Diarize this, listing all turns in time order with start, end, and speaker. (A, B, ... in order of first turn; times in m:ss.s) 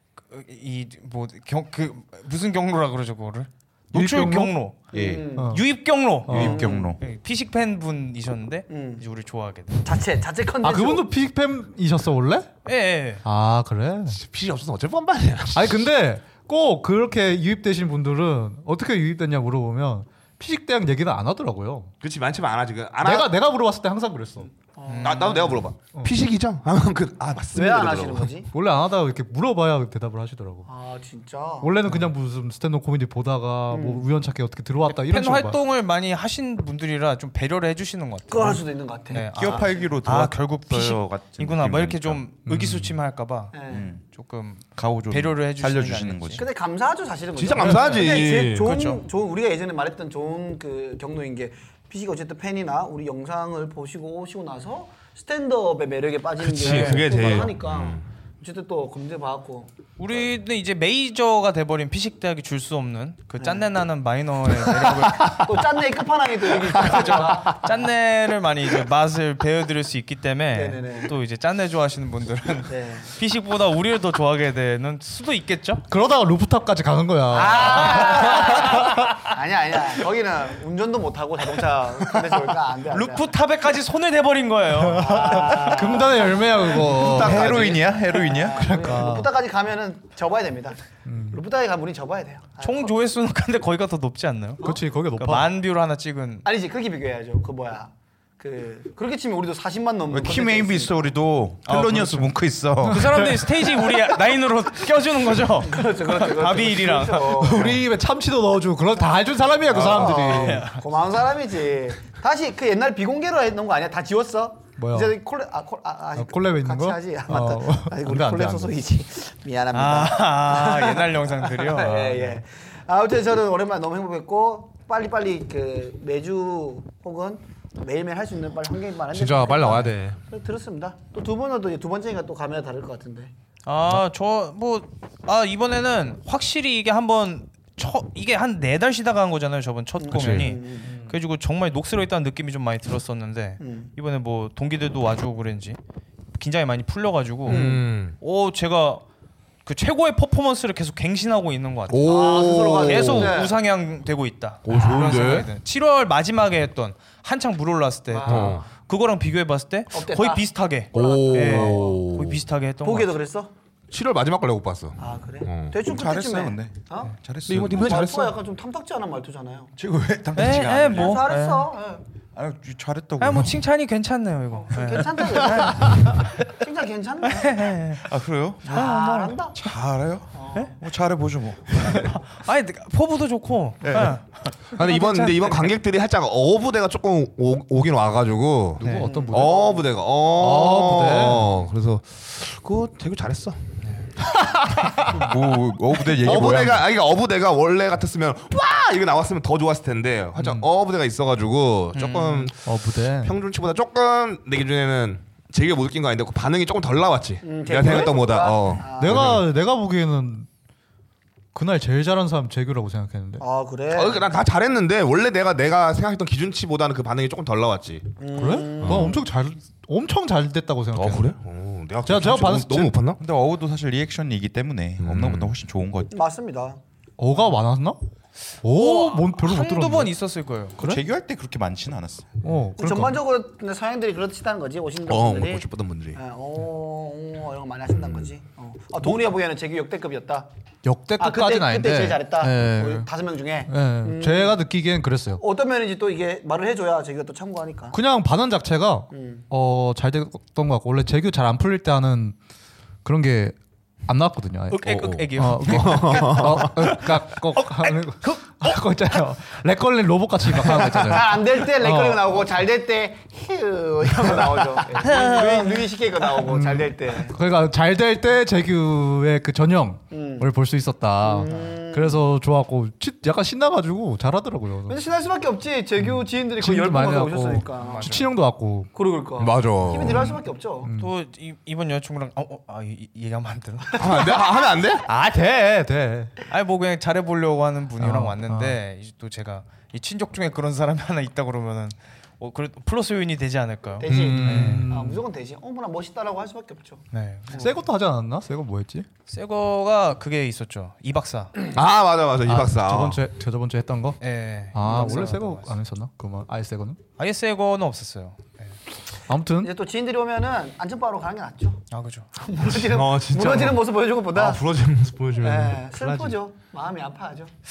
0:00.3-0:04.8 A
0:03.9-0:04.6 B
0:04.9-0:05.6 C
0:04.9-0:05.3 D
0:05.4-0:05.6 B
0:05.4-0:09.8 A
0:06.2-0:06.6 B
0:06.3-0:07.0 D
0:06.3-0:06.9 C
0:08.7-0:09.0 C
0:09.8-0:11.1 C
0:10.6-0:12.5 B
0:12.6-0:13.2 A
0:13.2-0:14.2 B
0:14.1-0:15.8 E
0:15.5-0:21.9 B
0:22.0-0:23.3 E
0:23.0-0:24.5 B
0:24.7-0:25.6 C
0:24.9-0:25.6 A
0:25.0-0:28.3 E
0:27.5-0:28.5 C
0:28.5-0:30.7 B
0:30.7-0:31.9 C
0:31.6-0:35.6 B
0:33.7-0:34.0 C
0:34.9-0:46.4 A
0:38.3-0:39.8 C
0:39.3-0:42.2 D
0:42.4-0:43.0 B
0:43.5-0:43.9 C
0:43.7-0:44.0 D
0:44.8-0:46.4 D
0:46.4-0:59.7 C
0:47.4-0:48.7 E
0:47.8-0:49.0 A
0:56.4-0:58.0 E
0:56.6-0:57.1 A
1:00.0-1:05.5 A
1:03.4-1:03.7 C
1:04.8-1:05.5 E
1:05.3-1:07.6 C
1:06.8-1:15.8 A
1:06.9-1:07.5 E
1:10.5-1:11.1 C
1:12.7-1:13.1 C
1:15.9-1:19.3 B
1:17.3-1:23.3 C
1:22.9-1:25.4 A
1:24.8-1:27.7 B
1:24.9-1:32.9 C
1:26.9-1:28.8 D
1:28.6-1:29.3 B
1:31.0-1:31.4 B
1:32.6-1:36.4 A
1:34.6-1:35.5 B
1:36.4-1:41.0 C
1:40.1-1:43.4 D
1:41.6-1:42.3 A
1:42.8-1:43.4 B
1:42.9-1:47.5 A
1:45.6-1:47.8 C
1:47.3-1:50.7 B
1:49.7-2:13.3 C
1:50.3-1:50.8 A
1:54.8-1:55.2 B
1:56.2-1:58.8 B
1:59.7-2:02.4 A
2:09.1-2:10.2 E
2:13.6-2:25.8 A
2:20.0-2:20.9 C
2:20.1-2:20.5 E
2:23.6-2:23.9 C
2:26.4-2:29.0 A
2:27.5-2:27.8 C
2:27.5-2:28.2 E
2:29.6-2:32.1 A
2:31.9-2:33.4 E
2:32.0-2:33.5 C
2:32.7-2:43.1 A
2:34.6-2:35.5 E
2:38.1-2:38.6 C
2:38.3-2:38.6 E
2:39.9-2:42.0 C
2:40.9-2:42.4 E
2:42.8-2:43.5 C
2:43.9-2:45.7 E
2:45.0-2:47.1 C
2:45.8-2:48.0 D
2:47.5-2:48.4 E
2:47.7-2:49.7 C
2:49.8-2:51.3 D
2:50.4-2:51.7 A
2:50.9-2:52.0 C
2:52.3-2:53.6 D
2:53.2-2:56.1 A
2:54.6-2:57.8 C
2:57.2-2:58.0 A
2:58.0-2:58.8 D
2:58.6-2:59.6 C
2:58.7-2:59.4 A
2:59.5-3:02.2 D
3:00.3-3:00.7 C
3:01.7-3:05.7 A
3:03.8-3:04.2 D
3:04.8-3:13.8 E
3:08.8-3:09.1 A
3:08.8-3:09.5 B
3:09.0-3:09.9 C
3:10.3-3:11.6 B
3:14.7-3:15.0 E
3:15.0-3:16.8 D
3:16.2-3:29.4 E
3:20.4-3:20.6 B
3:21.9-3:22.5 A
3:22.6-3:23.3 B
3:27.4-3:29.4 C
3:28.9-3:30.5 B
3:31.5-3:33.4 B
3:33.4-3:34.2 C
3:33.9-3:38.2 E
3:38.2-3:39.2 C
3:38.4-3:41.3 B
3:38.8-3:39.1 E
3:40.9-3:43.2 E
3:42.0-3:43.0 B
3:43.2-3:46.1 D
3:45.0-3:45.5 E
3:46.1-3:46.8 C
3:47.2-3:48.0 B
3:48.6-3:50.1 B
3:48.6-3:50.8 A
3:50.8-3:52.4 D
3:52.4-3:53.2 B
3:52.8-4:00.5 C
3:55.1-3:56.2 E
4:00.8-4:03.1 B
4:01.2-4:04.6 C
4:03.7-4:05.4 B
4:05.4-4:08.0 C
4:07.9-4:12.4 B
4:09.1-4:09.4 C
4:13.0-4:22.3 B
4:14.7-4:18.8 A
4:14.8-4:17.0 E
4:21.0-4:27.4 C
4:24.9-4:25.9 A
4:26.4-4:35.0 B
4:30.1-4:30.5 C
4:31.2-4:32.2 C
4:34.9-4:38.2 C
4:36.6-4:38.9 B
4:37.8-4:38.3 A
4:38.9-4:40.9 C
4:39.4-4:40.4 E
4:40.8-4:41.1 B
4:41.0-4:44.4 A
4:43.9-4:45.0 E
4:45.0-4:46.3 B
4:46.5-4:54.8 A
4:48.0-4:48.8 B
4:54.0-4:57.7 C
4:54.1-4:54.8 E
4:54.1-4:55.2 B
4:57.1-4:57.6 A
4:57.5-4:59.1 B
4:59.3-5:01.6 A
5:01.7-5:03.2 E
5:02.4-5:04.2 B
5:04.2-5:05.7 A
5:04.7-5:07.0 B
5:04.8-5:05.3 C
5:07.2-5:08.7 A
5:09.3-5:09.7 B
5:09.6-5:11.8 C
5:11.9-5:12.3 A
5:12.4-5:14.6 C
5:12.7-5:16.4 E
5:15.4-5:17.5 C